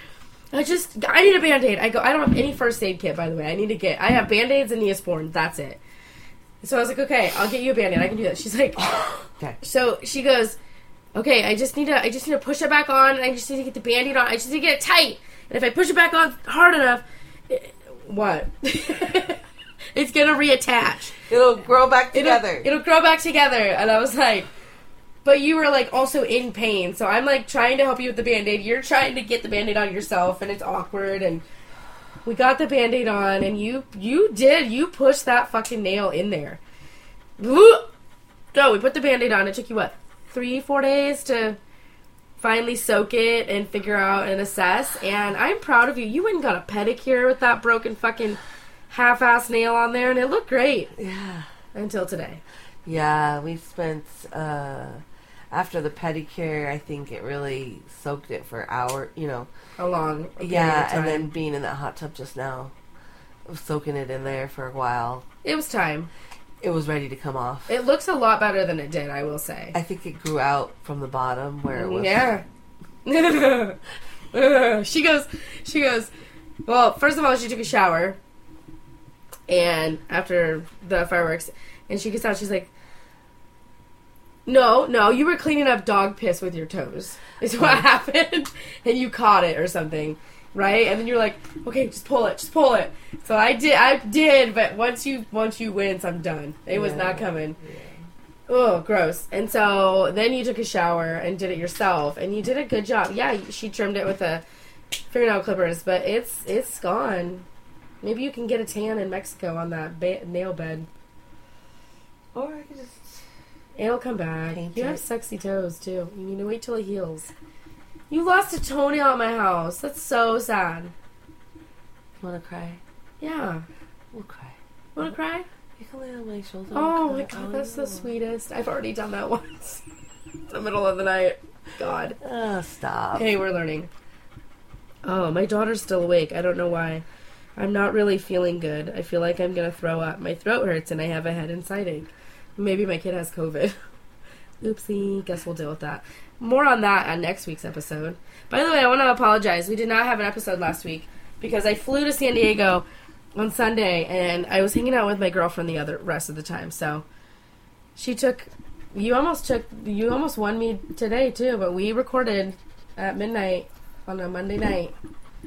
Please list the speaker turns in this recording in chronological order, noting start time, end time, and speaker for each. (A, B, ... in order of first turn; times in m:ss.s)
0:00.5-0:05.8 A
0:06.6-0:10.6 A
0:08.8-0:09.6 B
0:11.2-0:19.4 A
0:19.9-0:21.2 A
0:21.3-0:22.7 B
0:22.1-0:24.5 A
0:25.2-0:31.4 A
0:32.2-0:36.6 A
0:37.4-0:37.9 A
0:38.5-0:41.6 A
0:42.4-0:50.9 A
0:51.0-0:51.5 B
0:51.7-0:52.4 A
0:52.8-0:59.5 B
0:59.8-1:01.3 A
1:00.4-1:02.7 B
1:03.5-1:05.2 B
1:05.4-1:06.1 A
1:06.6-1:07.7 B
1:07.7-1:09.8 A
1:09.7-1:12.3 B
1:11.7-1:12.4 A
1:13.0-1:13.8 A
1:14.3-1:16.1 A
1:16.7-1:18.2 A
1:19.5-1:22.7 A
1:24.5-1:37.6 A
1:27.6-1:27.8 B
1:36.7-1:38.0 B
1:38.5-1:44.4 A
1:45.1-1:47.5 A
1:48.0-1:50.9 A
1:52.3-1:53.2 B
1:53.8-1:57.3 A
1:54.5-1:55.0 B
1:58.1-2:00.9 A
2:02.2-2:02.8 B
2:03.2-2:03.6 A
2:04.1-2:05.1 B
2:05.0-2:05.5 A
2:05.8-2:08.1 B
2:06.7-2:09.8 A
2:10.5-2:12.2 A
2:12.2-2:13.3 B
2:13.2-2:13.9 A
2:15.0-2:17.0 A
2:17.6-2:23.8 A
2:24.6-2:32.8 A
2:33.4-2:37.0 A
2:38.0-2:44.9 A